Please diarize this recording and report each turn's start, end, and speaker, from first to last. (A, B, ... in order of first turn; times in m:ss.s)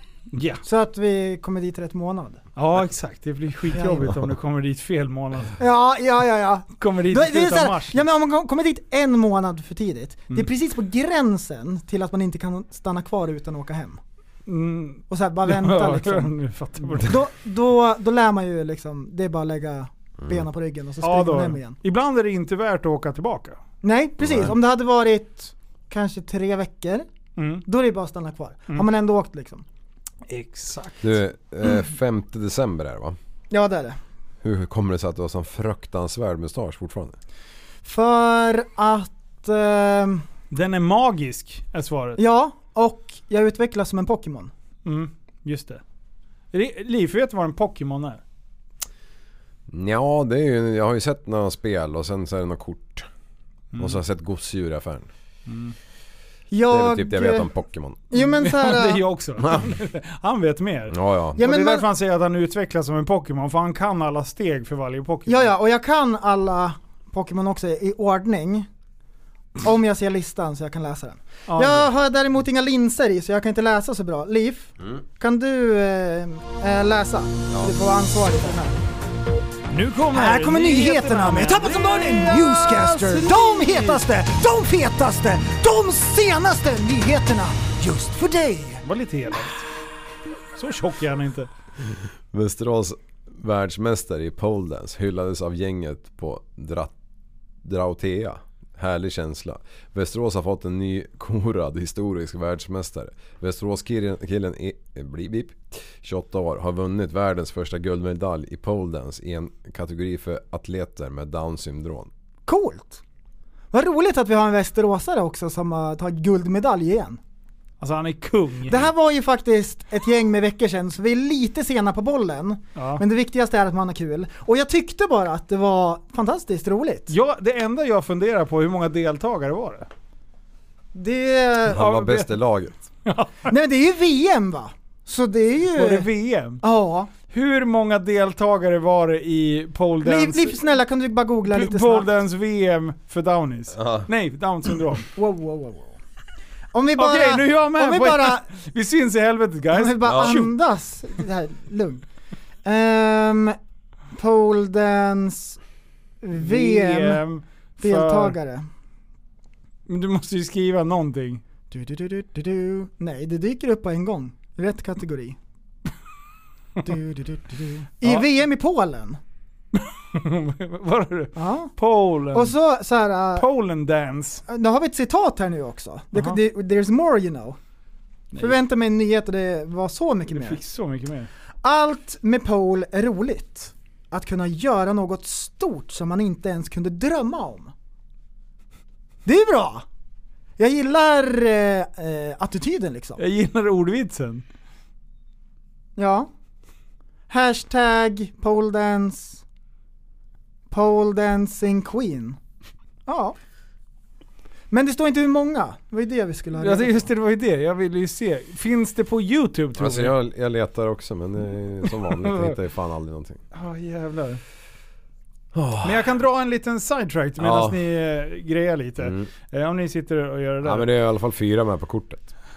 0:00.3-0:00.6 A
0:00.6-0:02.4 B
0:02.6-0:05.6 A
0:03.7-0:04.2 B
0:05.6-0:14.0 B
0:06.8-0:08.0 A
0:14.5-0:17.3 A
0:15.1-0:16.3 B
0:16.9-0:21.8 B
0:21.0-0:23.6 A
0:23.8-0:27.1 B
0:24.2-0:24.5 C
0:27.4-0:27.6 A
0:27.7-0:29.6 B
0:30.3-0:31.2 A
0:31.0-0:33.2 C
0:33.5-0:34.0 B
0:34.4-0:37.2 C
0:37.8-0:40.2 B
0:40.5-0:42.2 A
0:42.2-0:44.5 B
0:44.8-0:45.8 A
0:46.5-0:48.2 A
0:49.7-0:53.1 C
0:53.7-0:54.0 A
0:53.8-0:55.1 C
0:55.5-0:55.8 A
0:56.5-0:57.5 B
0:56.7-0:58.0 C
0:58.1-0:59.0 B
0:58.2-1:05.5 A
0:59.4-0:59.7 C
1:00.9-1:01.4 C
1:01.4-1:01.9 B
1:05.3-1:08.7 B
1:09.6-1:18.8 B
1:11.5-1:11.9 A
1:19.7-1:24.0 A
1:20.1-1:28.8 B
1:28.8-1:29.7 A
1:30.6-1:31.5 A
1:31.9-1:36.9 C
1:37.6-1:52.1 C
1:52.5-1:53.0 B
1:53.7-1:57.2 B
1:57.8-1:58.8 A
1:58.7-2:07.1 B
2:02.8-2:03.0 A
2:07.1-2:09.9 A
2:10.9-2:12.0 B
2:11.7-2:12.8 C
2:11.8-2:12.3 A
2:13.0-2:13.5 A
2:13.5-2:16.1 B
2:15.7-2:16.6 A
2:16.6-2:17.1 B
2:17.3-2:20.6 A
2:20.0-2:22.1 B
2:21.5-2:25.1 A
2:23.8-2:24.1 C
2:25.2-2:26.0 B
2:26.7-2:28.4 B
2:27.0-2:30.5 A
2:29.7-2:32.0 B
2:30.0-2:30.4 C
2:32.6-2:33.6 B
2:34.1-2:35.6 B
2:36.2-2:37.2 B
2:36.3-2:38.4 A
2:37.8-2:38.7 B
2:39.9-2:41.4 A
2:41.7-2:45.4 B
2:46.8-2:49.2 B
2:49.7-2:52.6 A
2:51.4-2:51.7 B
2:52.3-2:53.5 B
2:53.4-2:54.4 A
2:54.5-2:57.6 B
2:56.1-2:56.4 A
2:58.3-2:58.6 A
2:58.4-3:00.6 B
3:00.3-3:01.3 A
3:01.6-3:07.7 B
3:09.3-3:09.8 B
3:10.6-3:13.2 B
3:13.2-3:14.4 A
3:16.0-3:16.3 B
3:17.3-3:19.4 B
3:20.7-3:22.4 B
3:23.1-3:23.4 B
3:24.7-3:27.1 B
3:26.6-3:30.2 A
3:29.8-3:33.4 C
3:32.0-3:32.6 A
3:33.5-3:34.4 A
3:35.5-3:36.1 C
3:35.8-3:40.9 A
3:37.4-3:37.8 C
3:39.0-3:39.3 C
3:40.6-3:42.3 C